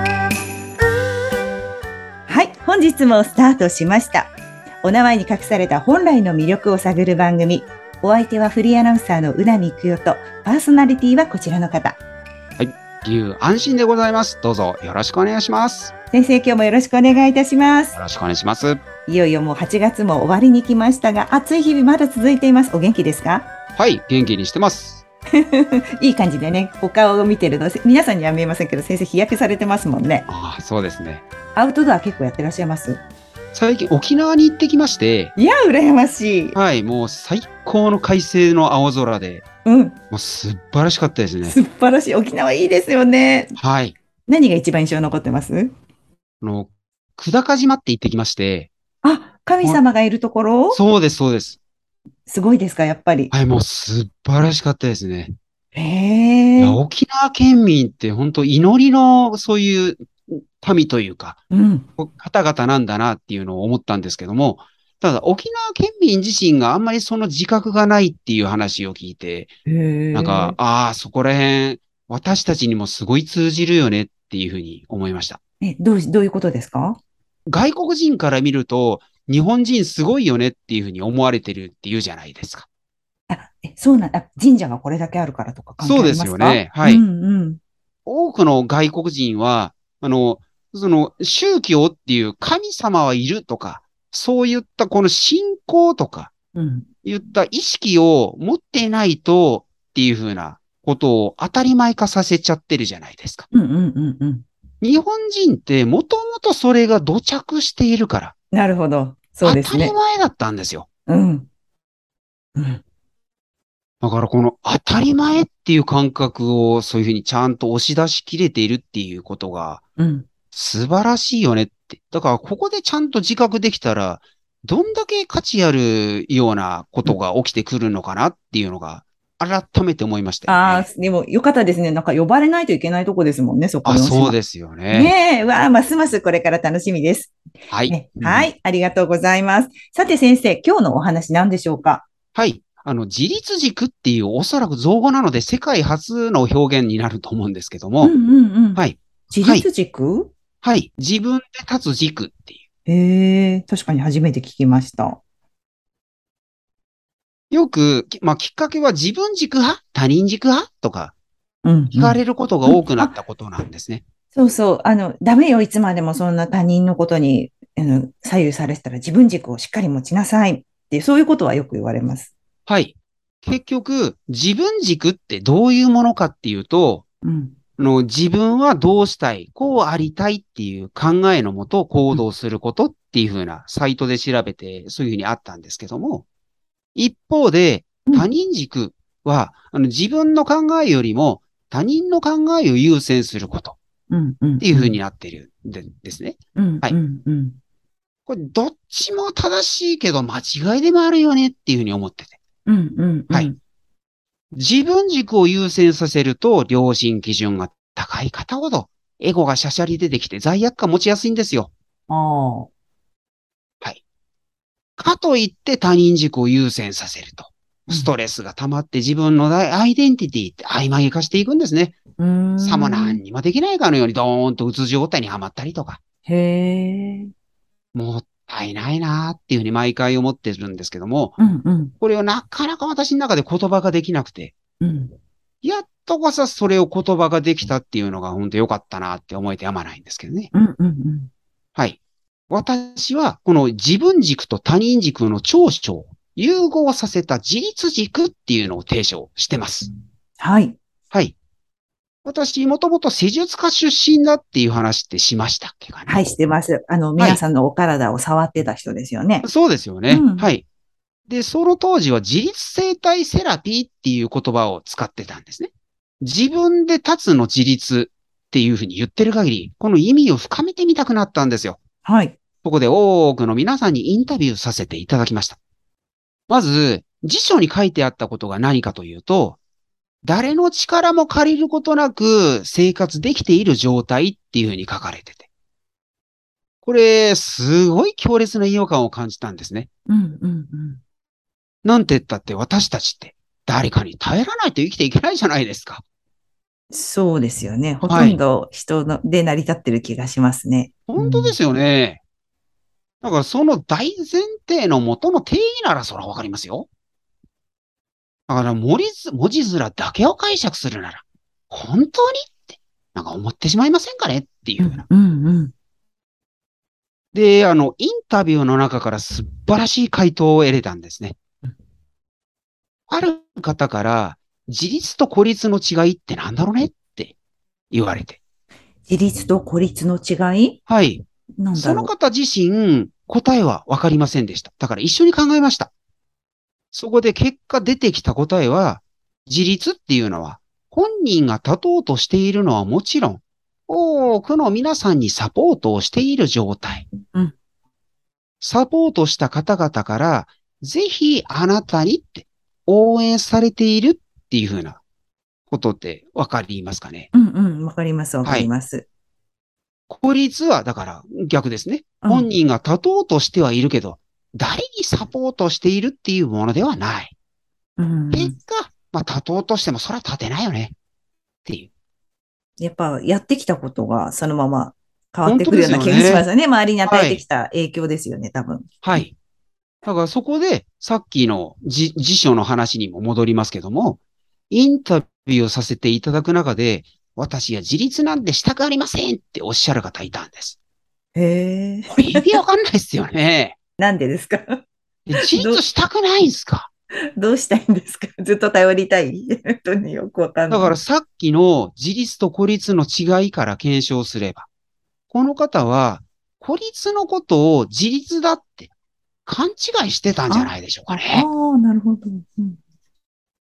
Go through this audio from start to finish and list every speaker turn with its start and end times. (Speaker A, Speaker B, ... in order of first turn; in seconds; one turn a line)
Speaker A: 2.3-12.0
Speaker B: 12.6-15.9
Speaker A: 16.1-18.0
Speaker B: 17.9-18.8
Speaker A: 19.1-23.5
Speaker B: 23.8-25.0
Speaker A: 25.4-30.2
Speaker B: 30.3-31.2
Speaker A: 31.5-33.0
Speaker B: 33.5-35.3
Speaker A: 35.4-36.6
Speaker B: 36.5-39.4
Speaker A: 39.6-40.0
Speaker B: 40.1-41.6
Speaker A: 41.4-43.5
Speaker B: 43.6-43.9
Speaker A: 44.3-45.7
Speaker B: 46.4-48.7
Speaker A: 49.0-50.8
Speaker B: 50.7-51.6
Speaker A: 52.3-53.3
Speaker B: 53.3-55.3
Speaker A: 55.7-56.8
Speaker B: 56.6-61.4
Speaker A: 61.5-61.9
Speaker B: 62.0-69.5
Speaker A: 69.7-70.5
Speaker B: 70.1-75.4
Speaker A: 75.6-77.0
Speaker B: 77.5-82.7
Speaker A: 83.3-87.6
Speaker B: 85.8-87.0
Speaker B: 88.0-96.3
Speaker A: 96.5-96.9
Speaker B: 97.0-103.5
Speaker A: 103.5-104.4
Speaker B: 104.8-108.3
Speaker A: 108.5-110.0
Speaker B: 109.4-110.9
Speaker A: 111.1-111.5
Speaker A: 112.5-112.8
Speaker B: 114.0-119.8
Speaker A: 120.0-120.3
Speaker B: 120.5-130.9
Speaker A: 130.5-134.3
Speaker B: 133.8-135.1
Speaker A: 134.9-137.3
Speaker B: 137.7-138.5
Speaker A: 137.9-142.1
Speaker B: 142.3-148.1
Speaker A: 148.0-150.3
Speaker B: 148.8-149.7
Speaker B: 150.6-152.6
Speaker A: 152.8-155.2
Speaker B: 157.5-161.1
Speaker A: 161.6-163.2
Speaker B: 161.9-164.0
Speaker A: 164.3-172.3
Speaker B: 172.7-177.0
Speaker A: 177.2-177.6
Speaker B: 177.8-186.2
Speaker B: 186.9-193.8
Speaker A: 194.1-195.0
Speaker B: 194.6-196.9
Speaker A: 196.5-197.6
Speaker B: 198.3-202.4
Speaker A: 202.7-203.6
Speaker B: 204.5-211.7
Speaker A: 212.1-212.7
Speaker B: 215.0-222.0
Speaker A: 222.2-223.2
Speaker B: 222.6-226.0
Speaker A: 226.2-227.3
Speaker B: 227.9-231.4
Speaker A: 231.4-231.9
Speaker B: 232.0-234.5
Speaker A: 234.8-235.2
Speaker B: 235.6-240.5
Speaker A: 240.5-241.3
Speaker B: 242.5-249.9
Speaker A: 250.4-250.8
Speaker B: 251.1-251.3
Speaker B: 252.2-256.2
Speaker A: 256.1-259.4
Speaker B: 259.4-260.6
Speaker A: 260.1-260.5
Speaker B: 261.3-271.8
Speaker A: 272.0-272.4
Speaker B: 272.6-275.6
Speaker B: 276.5-279.6
Speaker B: 280.2-285.5
Speaker B: 286.8-289.9
Speaker A: 290.1-291.0
Speaker B: 291.8-296.0
Speaker A: 296.9-301.5
Speaker B: 298.0-298.4
Speaker B: 301.1-302.2
Speaker B: 303.2-306.9
Speaker B: 308.5-315.0
Speaker A: 314.8-315.7
Speaker B: 317.3-321.4
Speaker B: 323.1-327.3
Speaker B: 327.9-328.4
Speaker A: 329.1-330.8
Speaker B: 330.9-335.9
Speaker A: 331.6-332.1
Speaker B: 336.9-347.1
Speaker B: 348.6-355.0
Speaker B: 355.7-357.3
Speaker A: 357.3-359.1
Speaker B: 360.1-367.3
Speaker A: 362.2-362.5
Speaker A: 368.0-368.5
Speaker B: 368.3-370.9
Speaker B: 371.6-371.9
Speaker A: 372.8-379.2
Speaker B: 375.4-376.5
Speaker B: 377.0-377.4
Speaker B: 379.0-379.3
Speaker B: 380.0-384.2
Speaker B: 384.7-390.8
Speaker A: 391.3-392.5
Speaker B: 392.1-393.8
Speaker A: 394.0-394.8
Speaker B: 395.3-396.9
Speaker A: 395.3-395.8
Speaker A: 397.4-401.0
Speaker B: 400.7-404.7
Speaker B: 405.3-408.9
Speaker B: 409.4-411.4
Speaker A: 410.5-412.8